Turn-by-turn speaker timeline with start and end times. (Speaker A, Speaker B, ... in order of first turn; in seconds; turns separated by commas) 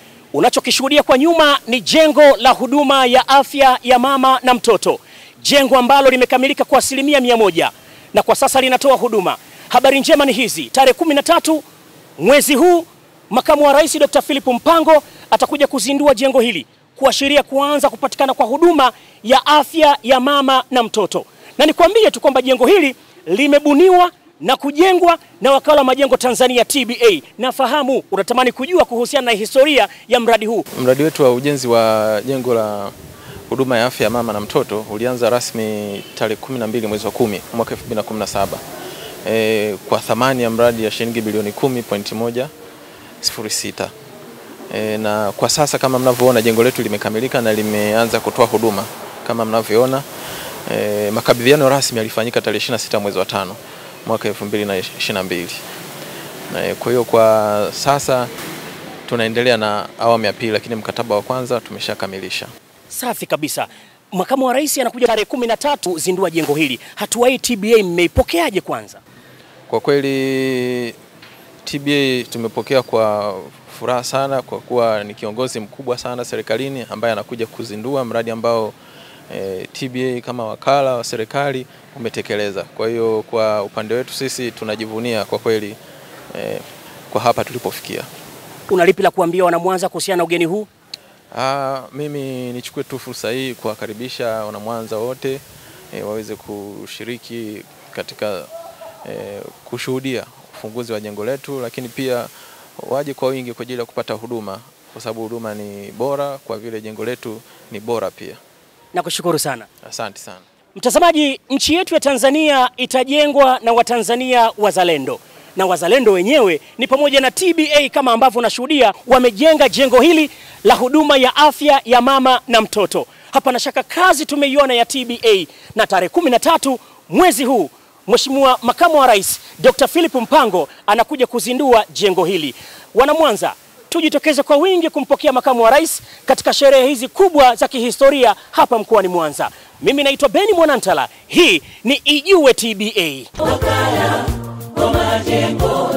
Speaker A: 0.3-11.6, Speaker A: 12.2-30.6, Speaker B: 30.7-32.9, Speaker B: 33.5-38.6, Speaker B: 39.2-42.5, Speaker B: 43.2-43.9, Speaker B: 44.7-50.0, Speaker B: 50.7-55.6, Speaker B: 56.5-58.3, Speaker B: 59.1-62.5, Speaker A: 62.9-69.0, Speaker B: 69.7-71.0, Speaker B: 71.7-78.8, Speaker B: 79.3-85.8, Speaker B: 86.3-88.1, Speaker A: 88.7-90.7, Speaker B: 91.3-95.4, Speaker B: 95.9-98.5, Speaker B: 99.0-108.4, Speaker A: 108.9-109.7, Speaker B: 109.8-110.4, Speaker A: 110.8-144.1, Speaker A: 144.9-145.7